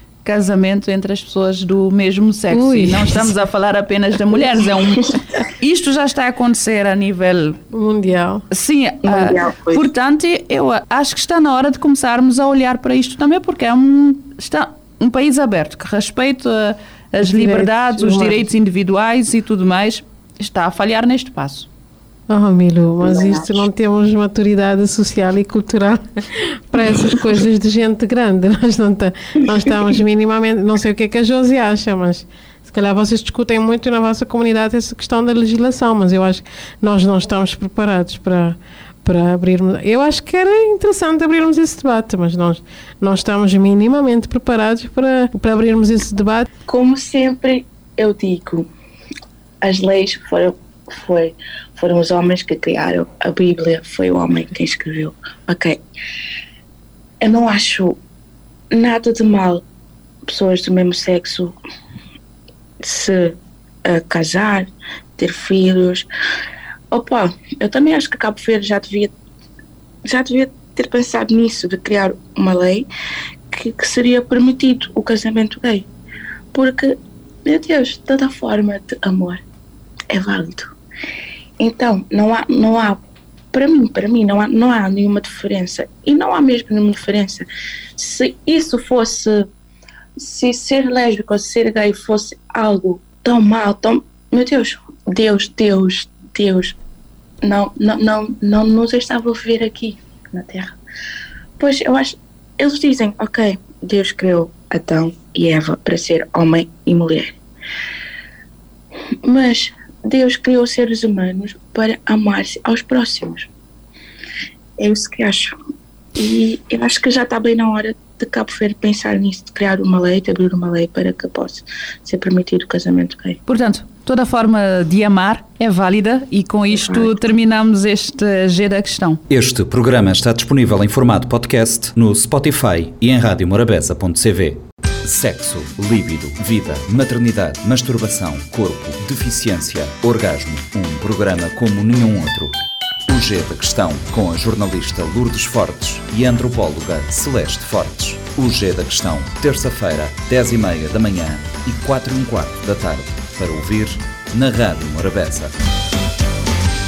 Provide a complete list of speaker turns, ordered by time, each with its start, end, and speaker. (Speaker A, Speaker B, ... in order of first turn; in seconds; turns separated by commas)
Speaker A: 0.2-7.6, Speaker B: 2.5-3.3, Speaker B: 7.7-8.4, Speaker A: 8.5-21.7, Speaker C: 9.0-9.9, Speaker B: 17.2-18.4, Speaker B: 22.3-46.5, Speaker C: 23.0-23.6, Speaker C: 46.7-48.7, Speaker C: 49.6-55.8, Speaker C: 57.2-58.0, Speaker C: 58.7-59.6, Speaker C: 60.3-61.6, Speaker C: 62.8-66.1, Speaker C: 66.9-69.1, Speaker C: 70.0-72.9, Speaker C: 73.5-75.9, Speaker C: 76.5-79.4, Speaker C: 80.1-80.7, Speaker C: 81.6-83.0, Speaker C: 83.5-87.5, Speaker C: 88.0-89.5, Speaker C: 90.2-96.8, Speaker C: 97.4-100.8, Speaker C: 101.6-107.4, Speaker C: 109.2-113.5, Speaker C: 114.8-115.5, Speaker C: 116.2-123.4, Speaker A: 123.5-129.2, Speaker C: 126.7-127.1, Speaker D: 129.3-142.5, Speaker D: 143.1-155.5